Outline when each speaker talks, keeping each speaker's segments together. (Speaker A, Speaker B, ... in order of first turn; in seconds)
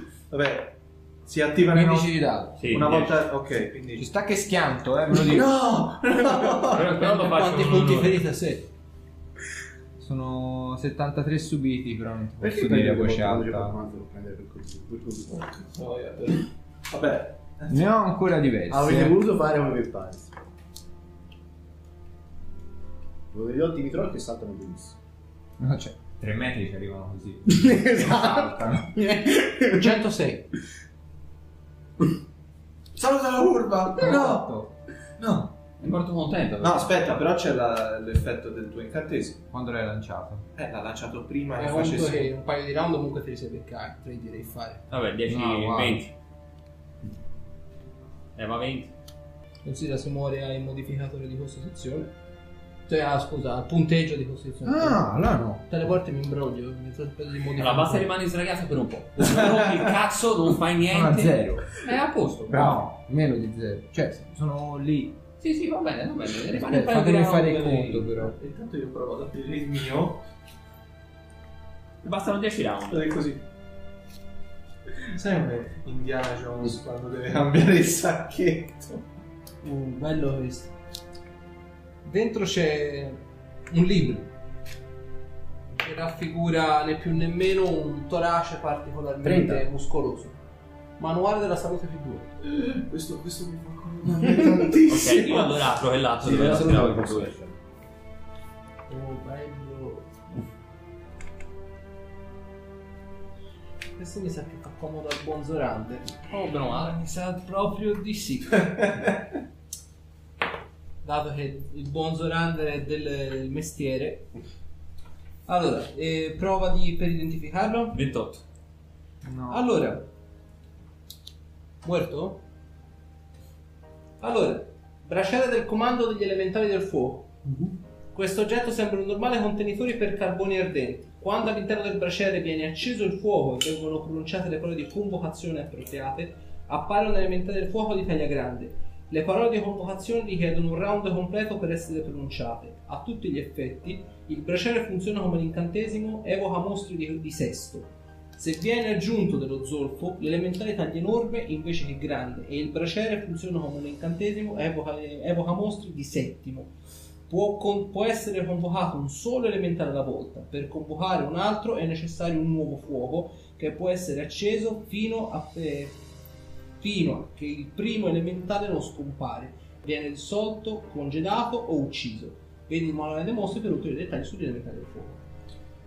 Speaker A: 0.3-4.1, 5.1-6.9, 15.3-17.9, 33.0-34.5, 35.2-35.5, 36.6-39.4, 40.5-42.3, 54.7-55.5, 59.2-60.0, 68.3-70.2, 72.9-73.4, 75.0-79.1, 92.4-95.7, 108.7-109.1, 119.2-119.6
Speaker B: 1.7-2.7, 4.0-5.6, 10.0-13.8, 17.7-19.2, 25.6-28.9, 34.0-34.7, 39.5-40.5, 45.3-46.0, 54.7-55.7, 60.8-61.8, 62.5-65.2, 66.5-68.3
Speaker C: 2.6-3.2, 6.6-8.2, 35.8-37.1, 44.9-46.1, 48.4-48.9, 57.6-62.8, 65.4-68.2, 72.0-73.1, 94.9-97.4, 106.3-107.0, 117.9-118.4
Speaker D: 6.8-8.7, 29.7-30.5, 41.6-44.9, 49.6-52.1, 52.9-55.1, 55.7-58.1, 79.6-80.7, 82.0-84.3, 85.7-90.4, 91.0-92.3, 98.9-100.3, 104.0-108.7, 111.0-114.3, 115.5-118.0, 119.5-120.1, 121.8-122.4, 124.2-127.3, 128.1-156.7, 157.3-166.0, 166.8-175.2
Speaker E: 12.4-15.4, 18.7-20.3, 23.3-25.0, 27.5-30.0, 89.2-89.7, 94.2-94.7, 96.2-97.5